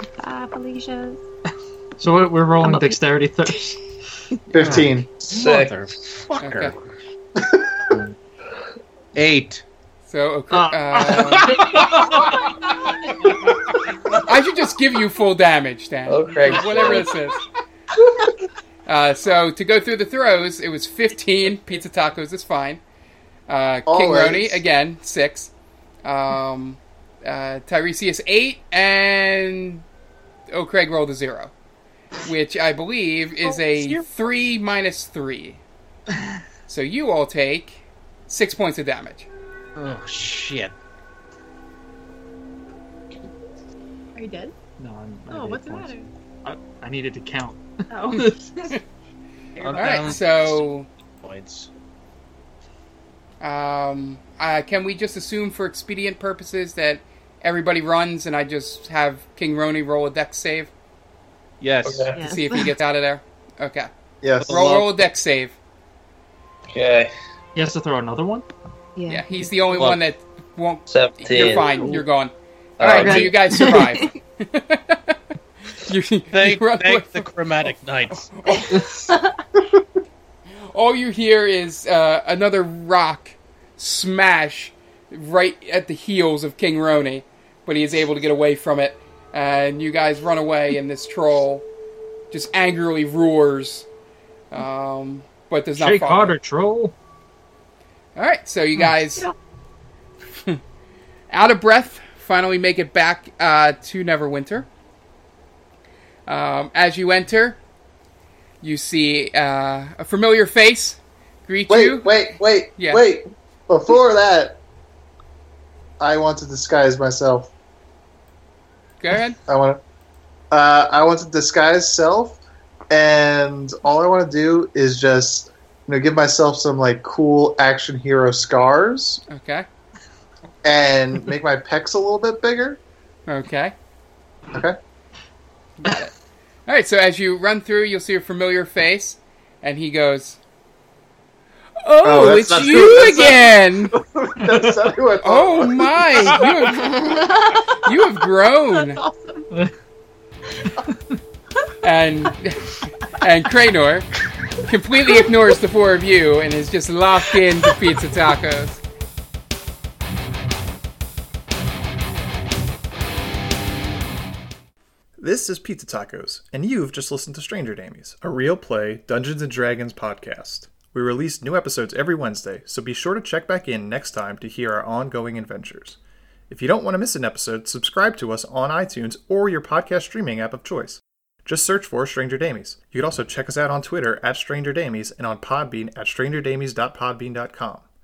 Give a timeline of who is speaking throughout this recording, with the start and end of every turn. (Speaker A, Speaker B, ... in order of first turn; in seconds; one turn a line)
Speaker A: 0.2-1.2
Speaker B: 2.0-3.8
Speaker A: 2.6-3.0
Speaker C: 4.5-5.4
Speaker D: 4.6-6.8
Speaker E: 5.3-5.8
Speaker F: 6.4-6.8
Speaker C: 7.4-7.8
Speaker D: 9.2-9.6
Speaker F: 10.1-11.8
Speaker B: 10.5-12.7
Speaker F: 14.2-17.4
Speaker E: 16.1-17.1
Speaker F: 18.9-22.8
Speaker F: 23.5-25.5
Speaker C: 23.9-24.6
Speaker F: 26.1-29.9
Speaker F: 30.5-31.5
Speaker F: 32.2-35.6
Speaker B: 33.4-34.0
Speaker F: 36.7-39.3
Speaker D: 39.8-40.7
Speaker A: 44.1-44.5
Speaker B: 44.8-48.3
Speaker A: 45.3-46.1
Speaker A: 47.9-48.5
Speaker D: 49.6-50.6
Speaker A: 49.6-49.9
Speaker F: 49.8-50.9
Speaker D: 51.2-51.7
Speaker F: 53.4-60.7
Speaker D: 61.6-62.1
Speaker E: 61.9-62.1
Speaker F: 62.1-63.9
Speaker A: 62.1-62.7
Speaker C: 64.2-64.5
Speaker D: 64.4-64.9
Speaker F: 64.4-65.6
Speaker E: 66.7-67.1
Speaker B: 67.5-68.5
Speaker A: 69.0-69.5
Speaker F: 69.1-75.2
Speaker D: 69.7-70.0
Speaker E: 70.9-71.7
Speaker D: 71.5-72.0
Speaker E: 72.8-73.4
Speaker A: 72.9-74.2
Speaker F: 75.7-77.3
Speaker D: 76.3-78.3
Speaker F: 78.3-78.9
Speaker A: 78.5-79.4
Speaker F: 80.5-91.7
Speaker F: 92.3-93.9
Speaker F: 94.5-96.4
Speaker B: 95.8-96.9
Speaker F: 98.2-99.3
Speaker F: 101.3-104.7
Speaker F: 106.3-107.6
Speaker F: 108.6-113.1
Speaker C: 111.7-114.6
Speaker C: 116.0-117.5
Speaker F: 119.0-119.4
Speaker C: 119.5-119.8
Speaker C: 120.5-129.2
Speaker F: 129.3-129.7
Speaker C: 130.6-132.8
Speaker F: 133.3-133.8
Speaker C: 134.5-134.8
Speaker F: 135.8-136.1
Speaker F: 136.7-140.4
Speaker F: 141.8-143.9
Speaker C: 142.0-146.3
Speaker B: 144.4-144.8
Speaker F: 145.2-149.0
Speaker A: 146.6-147.9
Speaker A: 148.7-149.5
Speaker F: 151.8-154.1
Speaker F: 154.6-158.8
Speaker G: 165.2-176.0
Speaker G: 176.5-187.9